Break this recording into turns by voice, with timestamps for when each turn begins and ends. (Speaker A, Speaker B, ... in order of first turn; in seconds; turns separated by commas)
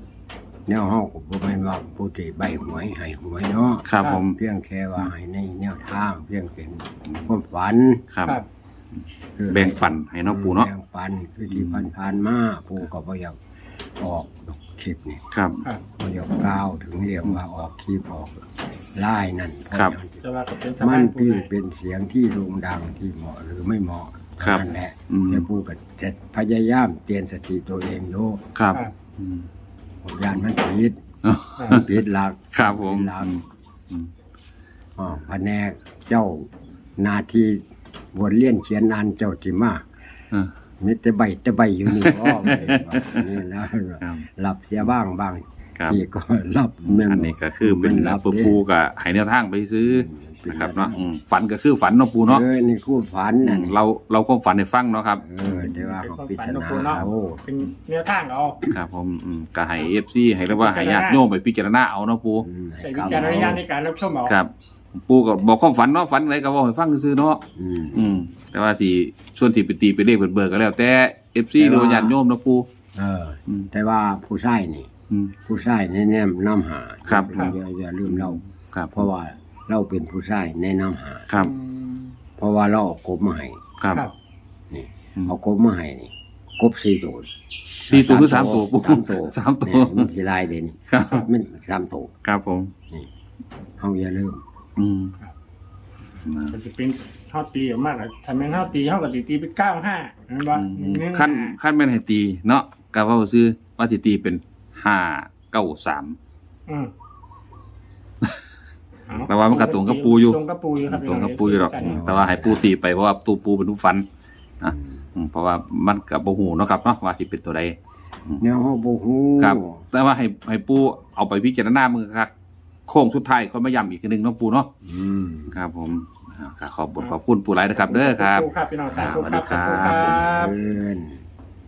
Speaker A: 0.7-8.1, Speaker B: 3.9-4.4, Speaker B: 8.1-8.4, Speaker A: 9.4-13.4, Speaker B: 9.5-10.7, Speaker B: 11.5-11.9, Speaker A: 14.0-15.3, Speaker B: 15.3-15.6, Speaker A: 15.9-20.2, Speaker C: 20.2-21.5, Speaker A: 20.8-28.4, Speaker B: 24.4-25.5, Speaker B: 28.6-29.5, Speaker A: 30.0-31.0, Speaker B: 31.2-32.0, Speaker A: 31.6-33.4, Speaker B: 32.5-34.1, Speaker A: 35.0-37.6, Speaker A: 38.1-39.9, Speaker A: 40.8-48.6, Speaker B: 41.9-43.4, Speaker B: 46.9-52.4, Speaker A: 49.8-51.0, Speaker A: 52.2-53.8, Speaker B: 53.4-55.2, Speaker A: 55.2-57.4, Speaker C: 55.6-58.6, Speaker B: 58.7-62.5, Speaker C: 60.5-61.2, Speaker A: 62.4-63.6, Speaker C: 62.8-64.4, Speaker B: 63.0-63.6, Speaker B: 64.2-67.4, Speaker A: 67.6-68.2, Speaker B: 67.9-72.7, Speaker A: 71.6-72.2, Speaker A: 73.0-74.9, Speaker A: 75.4-78.4, Speaker B: 77.1-77.3, Speaker B: 78.1-79.1, Speaker A: 78.9-81.3, Speaker C: 81.4-82.2, Speaker A: 82.4-83.6, Speaker B: 83.8-84.0, Speaker A: 84.7-87.3, Speaker A: 87.8-92.1, Speaker B: 87.9-90.1, Speaker B: 90.9-91.3, Speaker B: 92.2-92.7, Speaker A: 93.8-94.4, Speaker B: 94.8-95.2, Speaker B: 96.2-96.6, Speaker C: 96.5-101.5, Speaker B: 100.5-106.2, Speaker C: 106.7-106.9, Speaker C: 109.1-112.1, Speaker B: 109.2-114.1, Speaker A: 111.8-112.7, Speaker B: 114.6-117.8, Speaker A: 118.4-119.8, Speaker B: 119.4-122.3, Speaker B: 122.9-124.7, Speaker A: 124.8-125.6, Speaker B: 125.5-130.5, Speaker C: 127.8-130.5, Speaker A: 129.8-131.2